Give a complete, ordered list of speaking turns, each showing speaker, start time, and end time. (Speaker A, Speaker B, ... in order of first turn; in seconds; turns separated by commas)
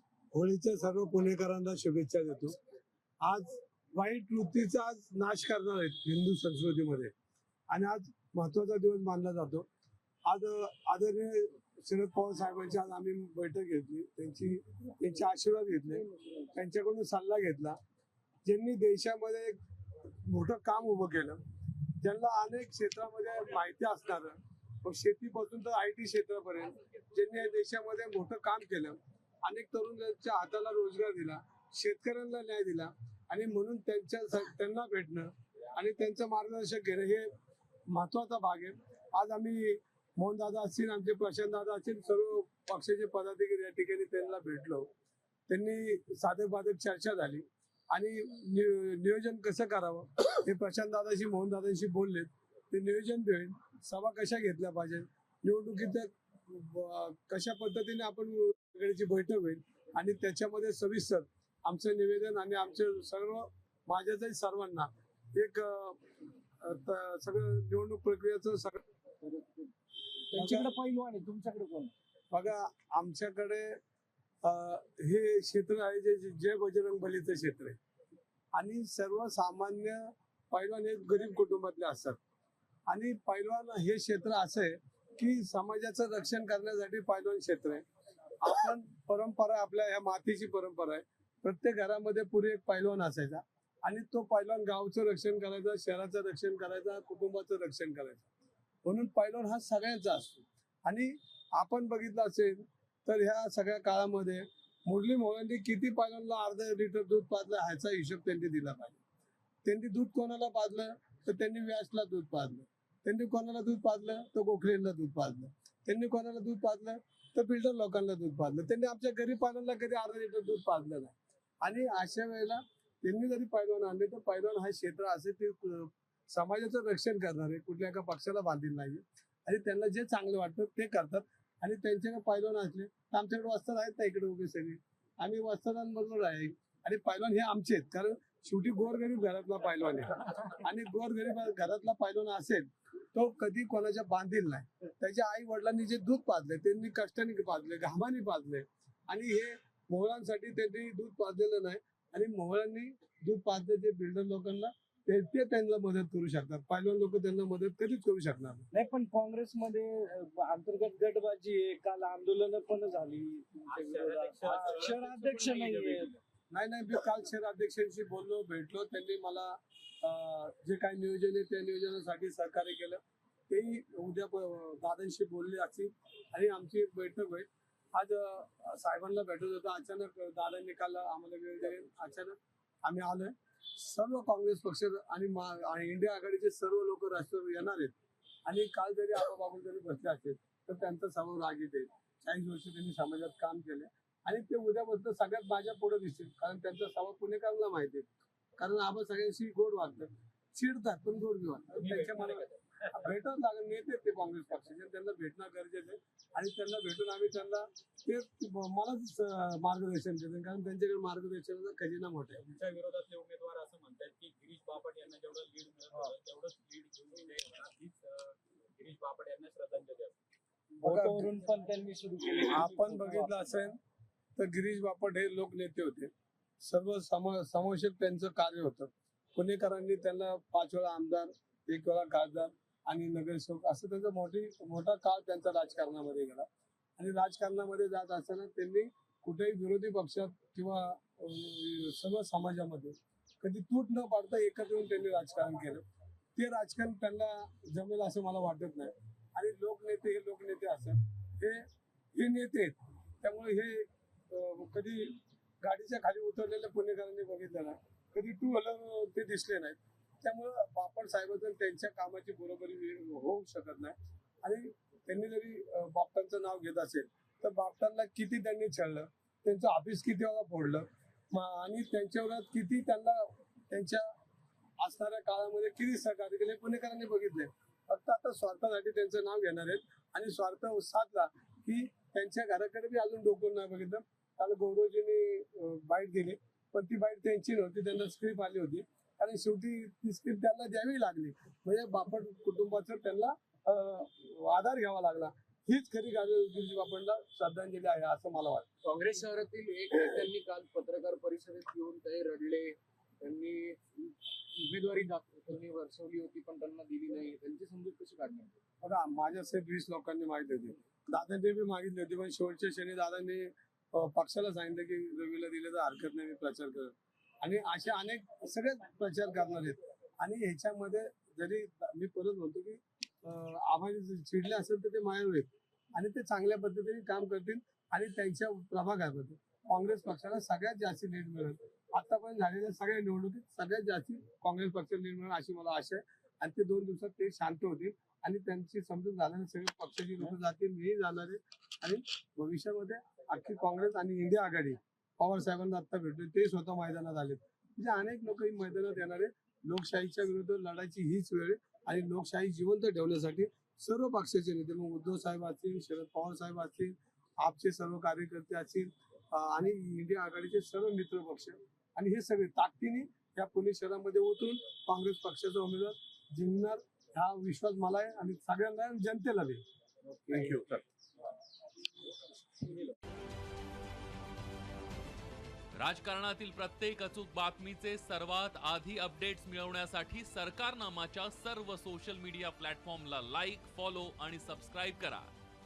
Speaker A: 0.3-2.5, Speaker A: 3.2-7.1, Speaker A: 7.7-9.7, Speaker A: 10.2-17.8, Speaker B: 15.9-16.5, Speaker A: 18.4-19.6, Speaker A: 20.2-21.4, Speaker A: 22.0-37.3, Speaker A: 37.9-44.9, Speaker A: 45.5-66.0, Speaker A: 66.6-68.8, Speaker B: 69.2-69.7, Speaker B: 70.3-71.9, Speaker A: 70.3-70.7, Speaker A: 72.3-73.8, Speaker A: 74.4-77.8, Speaker A: 78.5-82.2, Speaker A: 82.9-87.8, Speaker A: 88.4-98.3, Speaker A: 98.8-109.0, Speaker A: 109.6-158.7, Speaker B: 158.7-166.2, Speaker C: 163.7-166.2, Speaker A: 166.5-187.9, Speaker A: 188.5-198.1, Speaker A: 198.6-212.4, Speaker C: 201.7-203.1, Speaker C: 212.4-220.2, Speaker B: 220.8-223.4, Speaker A: 220.8-221.3, Speaker A: 222.5-223.8, Speaker A: 224.3-245.8, Speaker A: 246.3-251.6, Speaker A: 252.1-274.0, Speaker A: 274.8-298.7, Speaker D: 298.8-308.5, Speaker A: 308.8-369.6, Speaker B: 370.1-370.6, Speaker E: 375.8-385.3